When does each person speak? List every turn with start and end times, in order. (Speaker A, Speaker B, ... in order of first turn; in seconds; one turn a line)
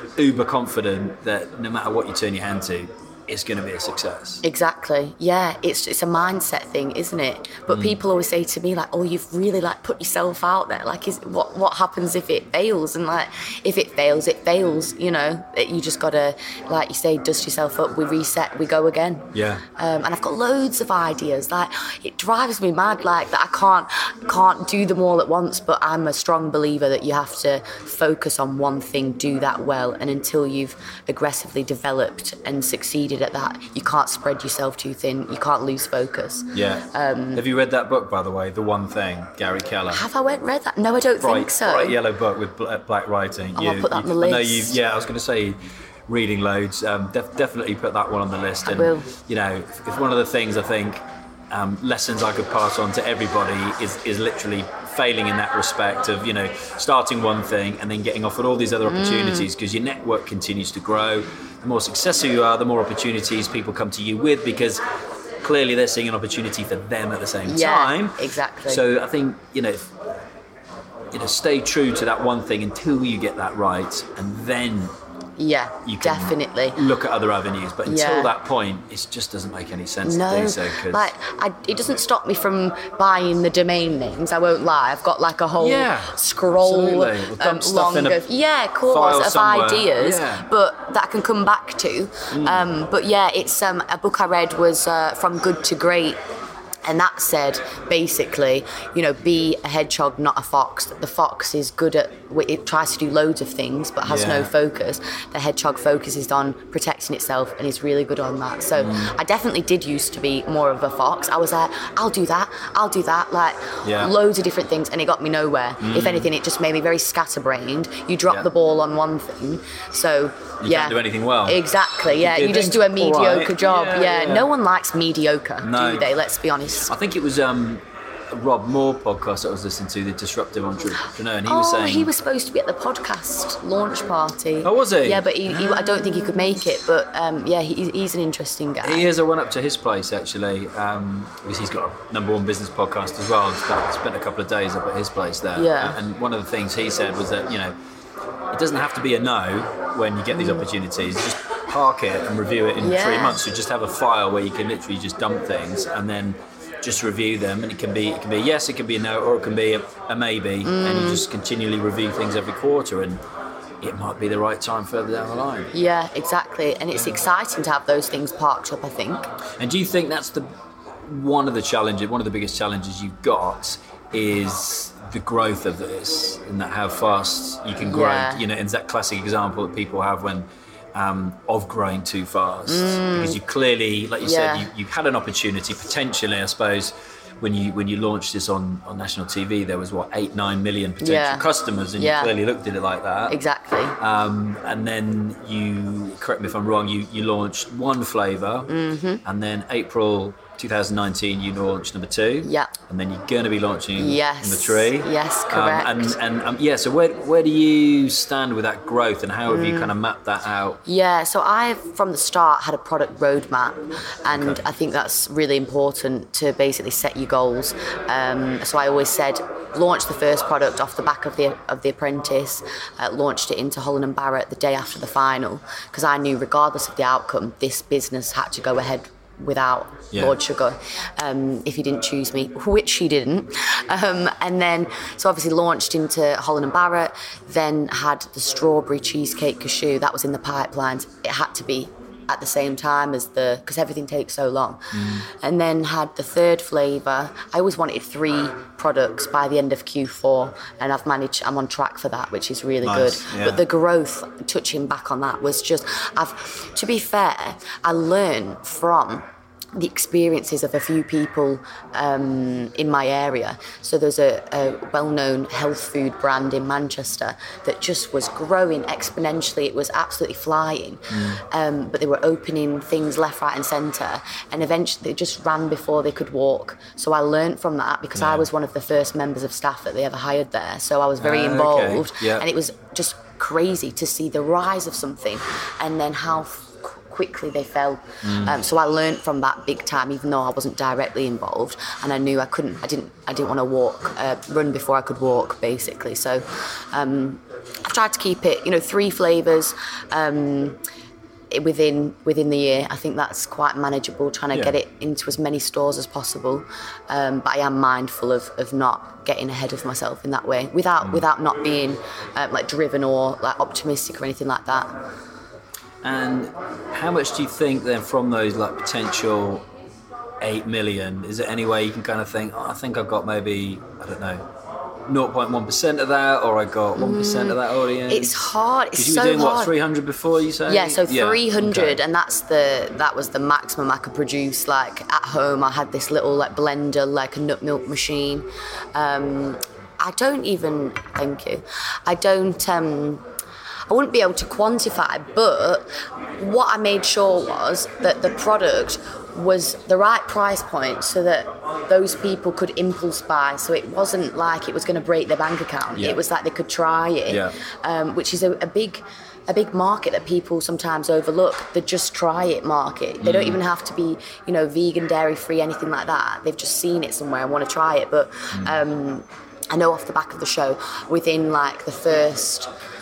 Speaker A: 0.2-4.4
Speaker B: 4.4-37.4
Speaker A: 7.7-8.0
Speaker A: 19.3-19.6
Speaker A: 36.5-40.0
Speaker B: 39.9-42.0
Speaker A: 41.2-45.6
Speaker B: 43.5-44.8
Speaker A: 46.1-64.8
Speaker B: 48.6-49.1
Speaker B: 58.9-59.5
Speaker A: 65.4-69.9
Speaker B: 67.5-68.8
Speaker A: 71.1-74.9
Speaker B: 75.4-76.8
Speaker A: 75.8-81.1
Speaker B: 77.8-78.3
Speaker B: 80.0-96.2
Speaker A: 85.6-88.2
Speaker A: 88.9-90.4
Speaker A: 92.3-92.7
Speaker B: 96.8-126.9
Speaker A: 104.0-104.5
Speaker A: 108.8-109.1
Speaker A: 113.8-114.1
Speaker A: 115.8-116.3
Speaker A: 120.6-124.5
Speaker A: 125.6-126.2
Speaker A: 126.8-132.1
Speaker B: 131.4-139.1
Speaker A: 134.6-136.6
Speaker A: 138.8-147.7
Speaker B: 145.5-146.0
Speaker A: 148.5-163.2
Speaker B: 150.3-150.6
Speaker B: 152.8-153.5
Speaker B: 160.6-161.2
Speaker A: 163.8-165.7
Speaker B: 165.7-169.3
Speaker A: 169.6-170.4
Speaker A: 171.0-193.3
Speaker B: 177.8-178.4
Speaker B: 182.7-183.4
Speaker B: 184.2-184.7
Speaker B: 191.0-191.4
Speaker B: 192.0-192.3
Speaker B: 193.3-194.0
Speaker A: 194.0-198.7
Speaker B: 198.7-199.2
Speaker A: 199.2-210.8
Speaker B: 202.4-202.7
Speaker B: 204.0-206.2
Speaker B: 209.5-209.9
Speaker B: 210.8-259.2
Speaker A: 214.3-214.6
Speaker A: 244.9-245.2
Speaker A: 252.8-253.6
Speaker B: 259.7-300.8
Speaker A: 271.1-271.4
Speaker A: 278.1-278.5
Speaker A: 281.2-282.4
Speaker A: 288.2-288.6
Speaker B: 301.5-314.9
Speaker A: 316.0-319.7
Speaker A: 320.4-324.4
Speaker A: 325.1-332.0
Speaker B: 326.9-329.7
Speaker B: 330.7-343.2
Speaker B: 343.9-372.7
Speaker A: 357.3-357.5
Speaker A: 363.2-363.6